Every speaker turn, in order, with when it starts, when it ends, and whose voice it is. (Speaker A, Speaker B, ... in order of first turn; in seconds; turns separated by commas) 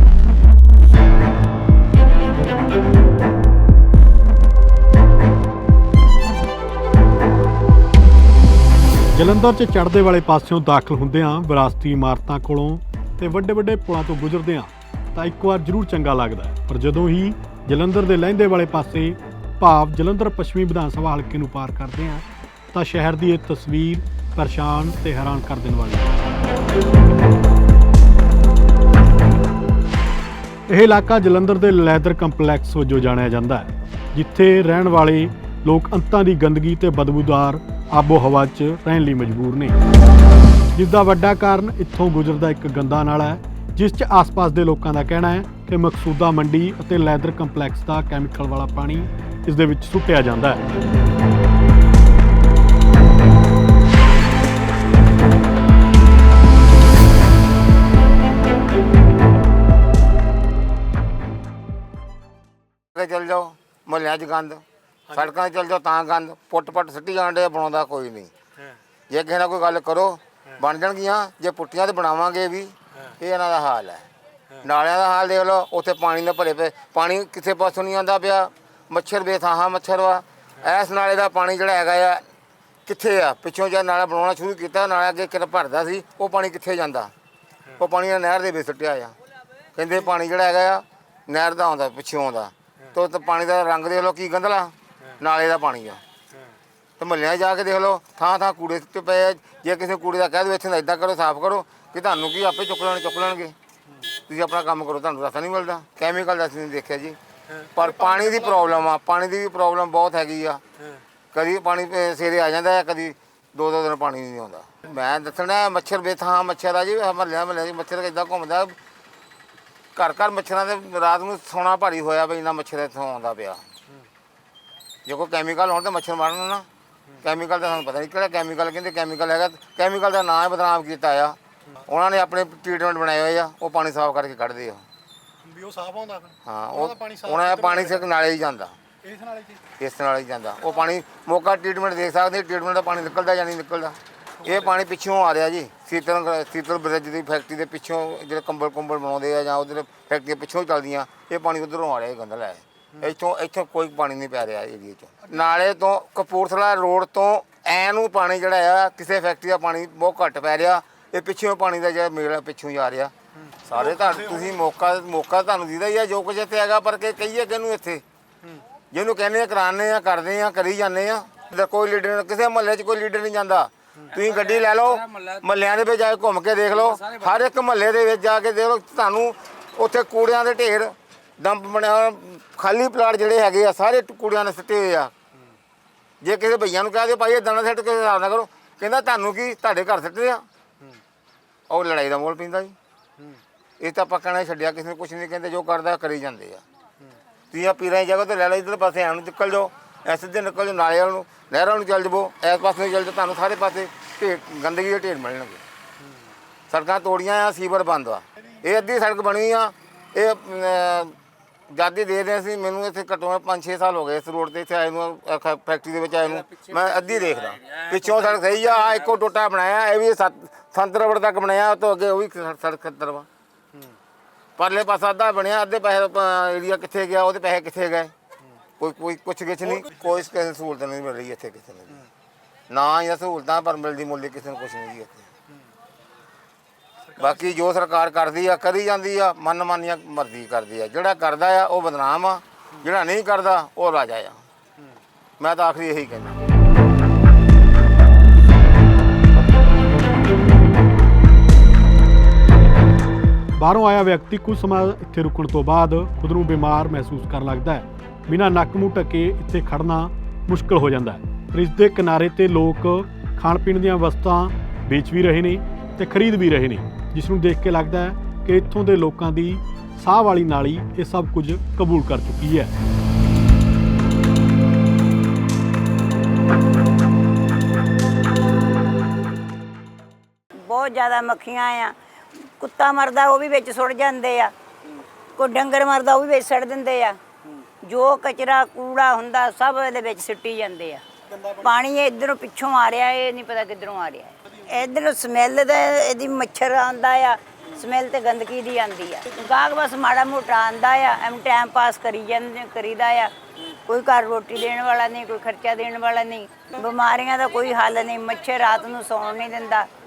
Speaker A: 9.1-26.2, Speaker A: 30.7-39.8, Speaker A: 40.8-50.6, Speaker B: 63.0-64.6, Speaker B: 65.1-68.3, Speaker B: 69.1-74.1, Speaker B: 74.6-82.2, Speaker B: 82.9-87.1, Speaker B: 87.8-89.1, Speaker B: 89.8-96.0, Speaker B: 97.0-103.5, Speaker B: 104.3-107.2, Speaker A: 107.5-108.9, Speaker B: 107.7-110.6, Speaker B: 111.3-118.8, Speaker B: 120.0-123.6, Speaker B: 125.1-126.7, Speaker B: 127.2-134.8, Speaker A: 135.4-138.1, Speaker B: 136.5-138.7, Speaker A: 139.0-139.6, Speaker B: 139.8-163.1, Speaker A: 144.4-144.7, Speaker A: 155.3-155.6, Speaker A: 163.5-164.6, Speaker B: 163.7-168.0, Speaker B: 168.9-185.1, Speaker B: 186.2-190.4, Speaker B: 191.7-192.8, Speaker B: 193.8-196.6, Speaker B: 197.5-205.6, Speaker B: 206.7-211.2, Speaker B: 211.7-223.3, Speaker B: 224.6-228.1, Speaker B: 228.8-232.0, Speaker B: 232.7-235.3, Speaker A: 237.1-237.4, Speaker B: 237.2-244.4, Speaker B: 245.4-246.3, Speaker A: 253.6-272.7, Speaker C: 280.6-284.5, Speaker C: 285.4-287.2, Speaker C: 287.8-291.0, Speaker A: 291.3-291.7, Speaker C: 291.6-309.9